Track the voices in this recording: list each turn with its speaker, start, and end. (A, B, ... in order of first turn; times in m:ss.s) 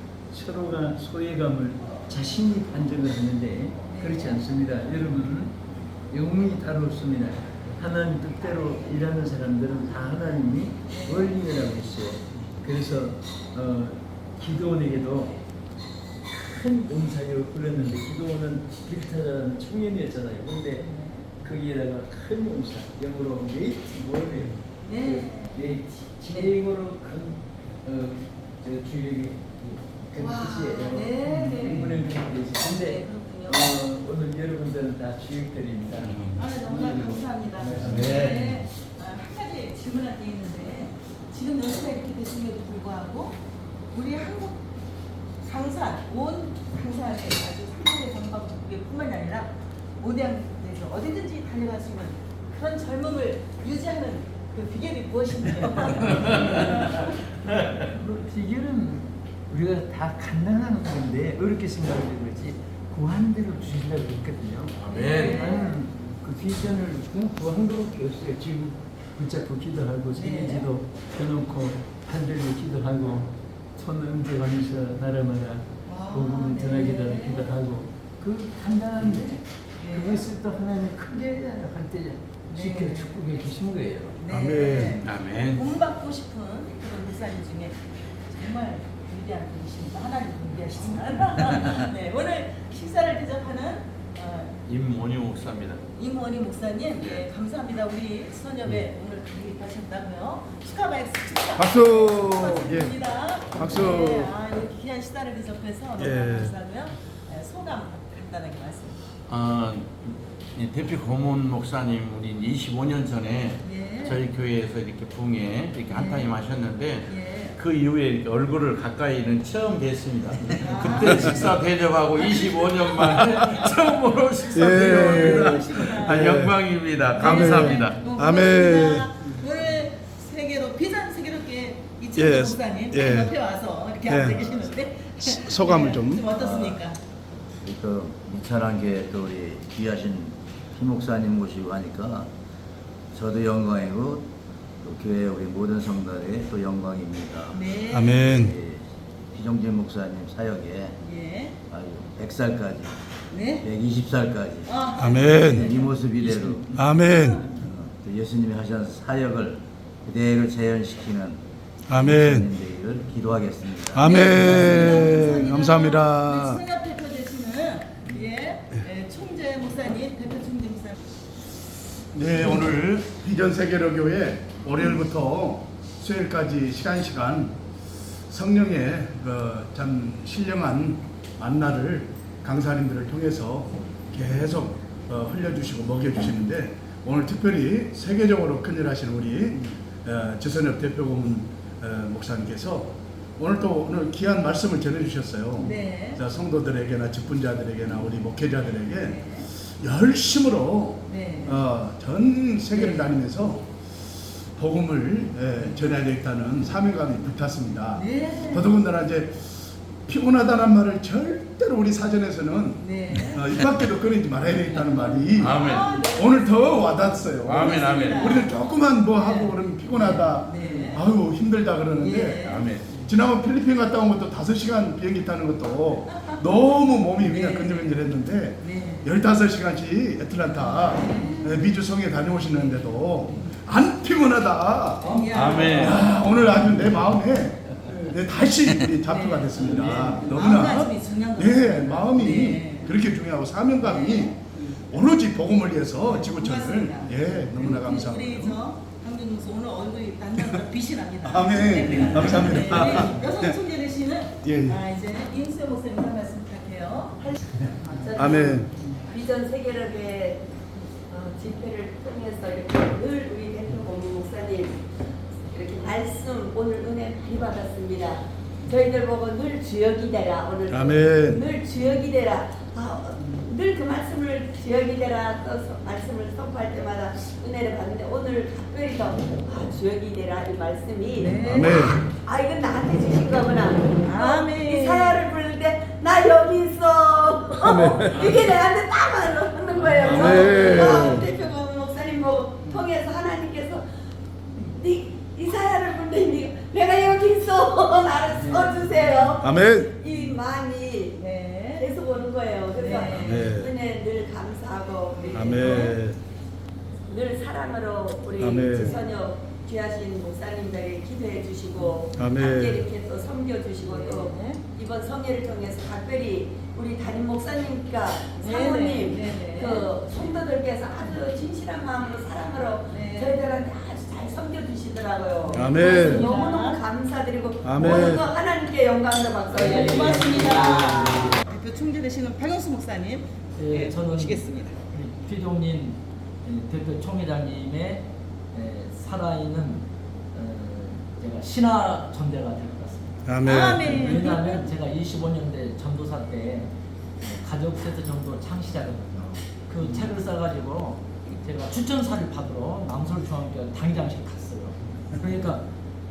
0:00.3-0:05.5 A
0:03.8-0:04.4 B
0:06.1-0:15.3 A
0:10.9-0:11.4 B
0:16.3-0:20.8 A
0:20.7-0:21.3 B
0:21.4-0:38.2 A
0:24.8-0:25.8 B
0:30.1-0:31.9 B
0:32.6-0:33.8 B
0:36.0-0:36.4 C
0:36.4-0:43.4 B
0:37.9-0:38.4 C
0:43.9-0:44.6 B
0:45.4-0:56.7 B
0:56.1-0:56.8 C
0:57.9-1:24.2 A
1:04.8-1:05.5 C
1:04.9-1:05.8 B
1:10.1-1:10.7 B
1:15.9-1:17.5 B
1:19.0-1:20.3 B
1:22.5-1:23.4 B
1:24.2-1:34.5 B
1:24.3-1:25.0 D
1:25.0-1:25.6 C
1:34.6-1:35.8 C
1:36.0-1:49.0 B
1:37.0-1:37.2 C
1:41.6-1:42.9 D
1:43.5-1:44.3 D
1:46.0-1:46.5 D
1:49.3-2:08.0 C
1:53.6-1:54.2 B
1:55.9-1:56.3 B
1:57.0-1:57.6 B
2:00.6-2:01.6 B
2:02.2-2:03.7 B
2:04.5-2:06.2 B
2:04.5-2:06.6 D
2:07.1-2:17.0 B
2:07.2-2:09.2 D
2:12.1-2:13.3 D
2:14.1-2:14.5 D
2:15.2-2:16.3 D
2:16.3-2:16.8 E
2:17.6-2:22.3 E
2:23.1-2:24.3 E
2:24.8-2:27.6 E
2:27.5-2:28.2 B
2:27.9-2:28.5 D
2:28.2-2:30.9 E
2:31.0-2:31.5 B
2:31.7-2:33.0 E
2:33.3-2:33.6 B
2:33.6-2:34.8 E
2:34.6-2:35.9 B
2:35.0-2:35.7 D
2:35.6-2:36.6 E
2:36.7-2:37.4 D
2:37.0-2:37.4 B
2:37.5-2:44.1 E
2:41.9-2:42.5 D
2:43.9-2:46.6 D
2:44.0-2:51.0 B
2:52.1-2:57.5 D
2:58.3-3:19.2 D
3:15.6-3:16.2 B
3:19.0-3:19.4 B
3:19.8-3:23.6 D
3:21.1-3:21.6 B
3:22.7-3:23.0 B
3:24.6-3:29.5 D
3:27.9-3:28.7 B
3:30.0-4:08.6 D
3:32.8-3:33.4 B
3:35.4-3:36.1 C
3:35.5-3:37.0 B
3:37.4-3:38.4 C
3:37.5-3:38.5 B
3:39.1-3:41.0 B
3:42.0-3:42.6 B
3:42.4-3:43.0 C
3:47.3-3:47.9 B
3:48.6-3:49.0 B
3:50.6-3:51.7 B
3:53.2-3:53.5 B
3:55.0-3:56.1 B
3:55.3-3:56.0 C
3:59.0-4:02.9 B
4:03.8-4:04.6 B
4:06.0-4:17.3 B
4:11.2-4:13.5 D
4:14.4-4:14.8 D
4:17.2-4:20.5 F
4:17.9-4:18.6 B
4:18.2-4:18.7 D
4:21.1-4:24.9 F
4:25.4-4:53.8 F
4:30.7-4:31.4 D
4:41.2-4:41.8 B
4:41.4-4:42.0 D
4:44.0-4:45.3 B
4:47.6-4:48.4 D
4:50.0-4:51.3 D
4:54.5-5:01.2 F
4:59.4-4:59.9 D
5:01.2-5:01.9 B
5:01.8-5:06.0 F
5:02.8-5:03.4 B
5:03.2-5:03.7 D
5:05.1-5:06.0 B
5:05.3-5:06.2 D
5:07.1-5:30.4 F
5:08.4-5:09.0 D
5:12.2-5:12.8 D
5:13.8-5:14.6 B
5:18.4-5:20.2 B
5:22.9-5:23.4 B
5:25.5-5:26.8 B
5:25.5-5:26.3 D
5:27.6-5:28.2 D
5:29.5-5:31.4 G
5:29.5-5:34.8 B
5:33.6-5:55.6 G
5:43.2-5:44.1 D
5:43.4-5:44.6 B